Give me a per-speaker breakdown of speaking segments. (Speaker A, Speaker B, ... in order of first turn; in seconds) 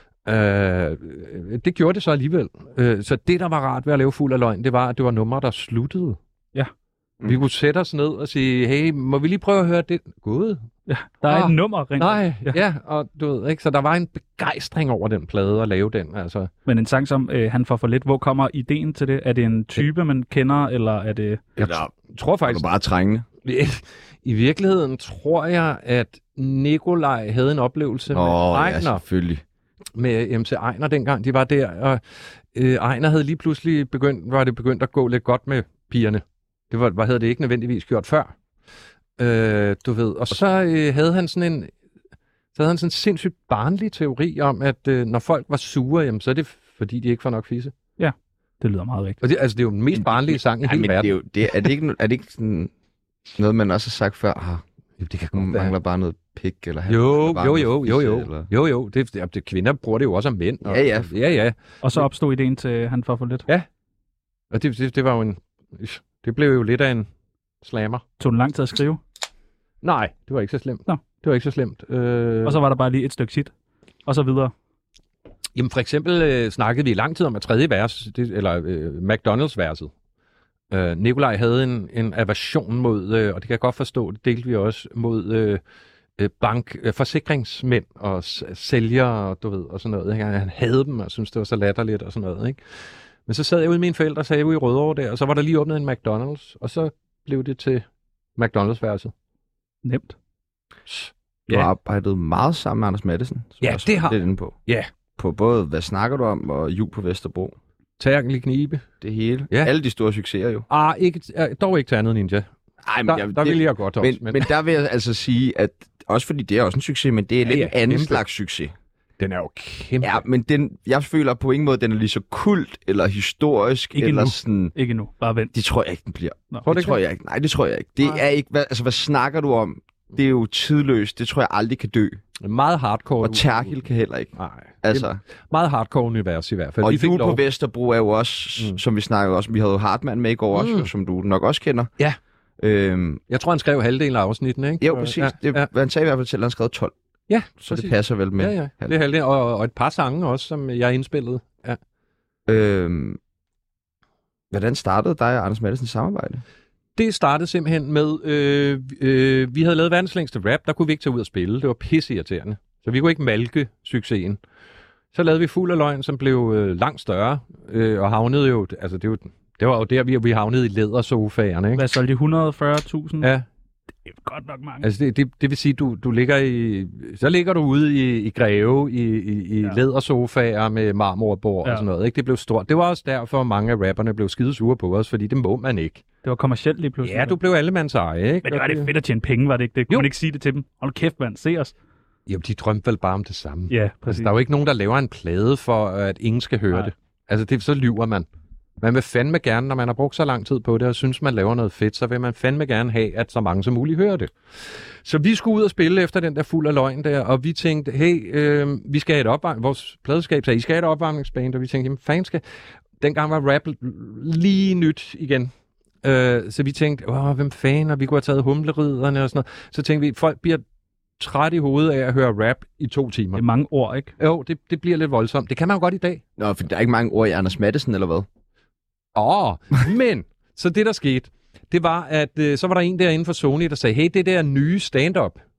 Speaker A: 0.3-6.2, 7.2-10.6, 11.3-16.5, 21.6-22.6, 23.4-29.0, 29.9-32.0, 32.5-38.3, 39.2-41.7, 42.5-47.7, 49.2-51.2, 55.0-55.7, 56.9-62.1, 64.5-67.1, 67.6-68.0, 69.8-72.6, 75.5-79.9, 80.7-85.6, 86.2-92.6, 93.3-97.8, 98.4-99.1, 100.9-101.7, 103.6-104.9, 108.0-108.8, 110.7-112.5, 113.1-114.5, 117.5-118.2, 119.2-120.2, 126.6-127.0, 132.4-133.8, 134.3-137.4, 140.5-140.9, 143.3-145.7, 147.3-151.8, 157.0-164.4, 165.1-171.8, 174.8-186.0, 187.0-188.9, 192.3-198.3, 198.8-212.4, 213.0-215.5, 216.0-220.6, 221.2-223.4, 224.2-226.2, 229.1-235.4
Speaker B: 10.9-12.6, 16.6-21.4, 48.0-49.2, 61.8-63.5, 68.2-69.0, 72.5-73.5, 74.1-74.5, 99.8-100.2, 124.0-125.5, 171.8-173.3, 174.1-174.9, 186.2-187.4, 188.4-191.7, 193.7-194.3, 223.3-224.1
Speaker C: 21.6-21.9, 22.5-23.3, 28.1-29.4, 50.6-52.7, 53.4-54.6, 55.3-58.5, 60.6-61.1, 101.5-104.6, 105.2-107.6, 109.0-110.7, 112.8-118.7, 120.0-124.7, 125.5-132.2, 133.2-135.2, 136.8-141.9, 142.6-143.2, 144.8-146.9, 147.6-149.0, 152.5-153.2, 154.5-156.4, 226.4-228.3